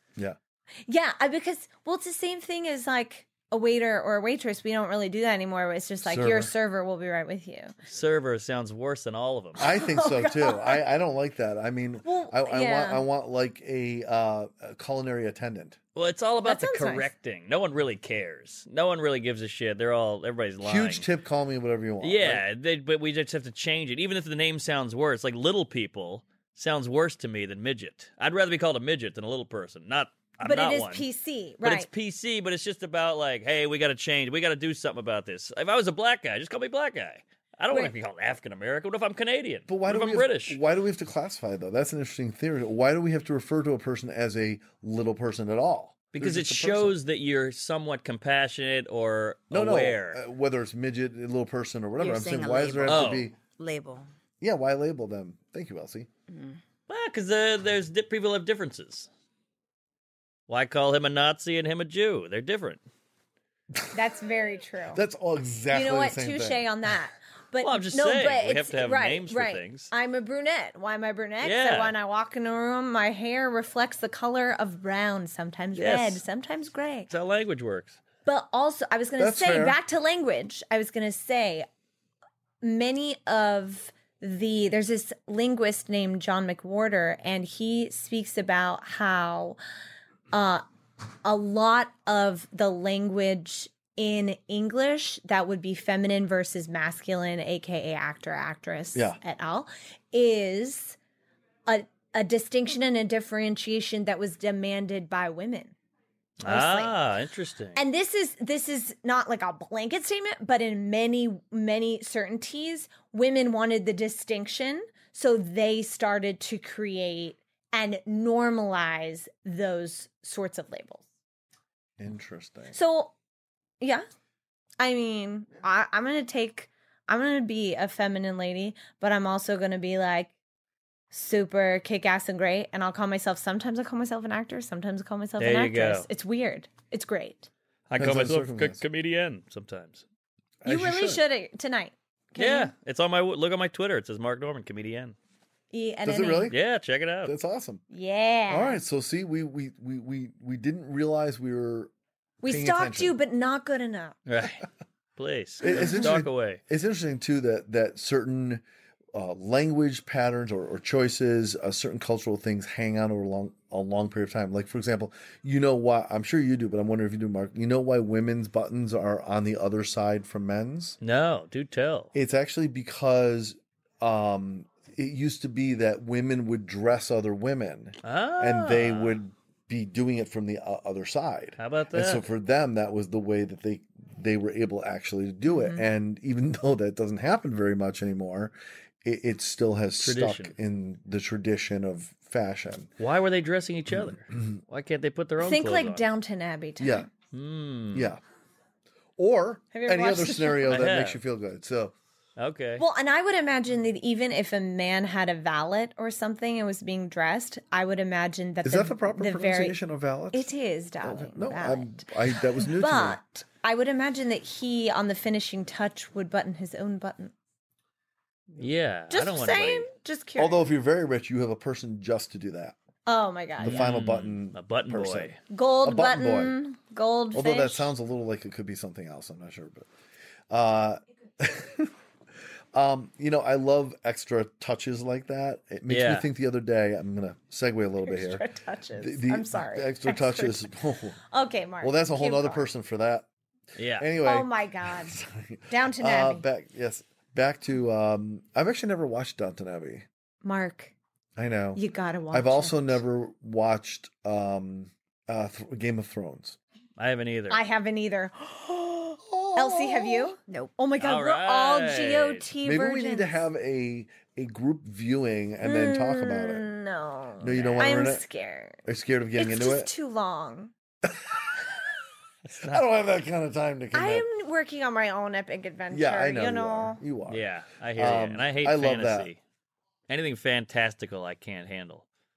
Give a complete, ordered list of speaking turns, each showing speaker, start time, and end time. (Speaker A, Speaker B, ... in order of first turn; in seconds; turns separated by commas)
Speaker A: 0.9-7.7, Speaker B: 6.0-6.5, Speaker C: 7.9-9.6, Speaker B: 9.6-15.8, Speaker A: 9.6-10.8, Speaker A: 12.0-13.1, Speaker C: 15.9-21.1, Speaker A: 16.4-17.1, Speaker B: 20.6-22.4, Speaker C: 22.0-31.1, Speaker A: 30.4-31.9, Speaker C: 31.6-40.6, Speaker B: 39.7-47.0, Speaker C: 46.1-50.2, Speaker B: 49.5-53.4, Speaker D: 52.0-54.1, Speaker C: 52.9-53.3, Speaker B: 54.4-56.1, Speaker D: 56.3-56.6, Speaker C: 56.9-59.1, Speaker C: 60.5-62.8, Speaker A: 63.9-65.0, Speaker B: 64.9-66.6, Speaker A: 65.7-77.1, Speaker C: 67.6-69.9, Speaker C: 71.4-71.9, Speaker C: 75.7-76.2, Speaker C: 77.1-78.0, Speaker A: 78.2-81.7, Speaker B: 79.2-79.8, Speaker A: 82.6-89.6, Speaker A: 90.3-90.6, Speaker A: 91.2-101.0, Speaker B: 98.9-99.2, Speaker A: 101.7-105.8, Speaker C: 106.4-107.8, Speaker A: 106.4-107.0, Speaker A: 107.8-121.0, Speaker B: 122.0-122.8, Speaker A: 122.7-123.1, Speaker A: 124.8-130.3, Speaker A: 131.1-137.5, Speaker C: 135.4-136.1, Speaker C: 137.9-140.0, Speaker B: 138.0-138.8, Speaker B: 140.6-141.2, Speaker A: 140.7-142.7, Speaker C: 142.4-145.2, Speaker A: 145.7-146.5, Speaker B: 146.1-146.6, Speaker C: 146.5-147.3, Speaker B: 147.2-147.8, Speaker A: 147.9-148.8, Speaker B: 148.5-151.9, Speaker A: 152.4-154.2, Speaker B: 152.5-153.2, Speaker C: 154.3-154.7, Speaker C: 155.2-156.6, Speaker B: 155.6-171.0, Speaker A: 155.6-155.9, Speaker C: 171.0-172.1, Speaker B: 172.2-192.9, Speaker C: 178.0-179.2, Speaker C: 181.6-182.3, Speaker A: 185.5-185.8, Speaker C: 190.0-190.5, Speaker C: 193.0-196.1, Speaker B: 193.9-194.6, Speaker A: 195.4-197.1, Speaker B: 196.8-197.1, Speaker C: 197.3-198.1, Speaker B: 197.9-198.2, Speaker B: 199.2-201.9, Speaker A: 199.7-200.9, Speaker C: 200.7-201.2, Speaker C: 202.4-202.8, Speaker A: 202.8-209.8, Speaker B: 208.6-210.5, Speaker A: 210.3-217.3, Speaker B: 211.0-213.2, Speaker C: 218.6-219.9, Speaker A: 219.1-220.7, Speaker B: 220.4-222.8, Speaker A: 223.1-223.9, Speaker B: 223.6-226.6, Speaker C: 223.6-225.4, Speaker A: 225.5-227.9, Speaker B: 227.3-229.9, Speaker B: 230.5-231.9, Speaker B: 232.7-238.4, Speaker C: 235.9-236.3, Speaker A: 238.0-240.7, Speaker B: 239.0-241.2, Speaker A: 241.3-242.7, Speaker B: 241.8-243.3, Speaker C: 243.8-244.1, Speaker B: 244.0-250.1, Speaker A: 244.2-245.2, Speaker A: 245.7-246.4, Speaker A: 250.4-250.9, Speaker B: 251.4-256.6, Speaker A: 251.8-253.0, Speaker C: 257.0-257.6, Speaker A: 257.5-263.4, Speaker B: 259.2-260.3, Speaker C: 261.0-262.5, Speaker B: 262.6-266.6, Speaker A: 265.6-268.8, Speaker B: 267.4-268.2, Speaker C: 267.5-267.9, Speaker B: 268.9-269.9, Speaker A: 269.4-270.7, Speaker B: 271.1-271.7, Speaker C: 272.5-272.8, Speaker B: 272.6-274.3, Speaker A: 273.9-277.0, Speaker B: 275.9-279.3, Speaker C: 277.3-279.4, Speaker C: 280.1-282.1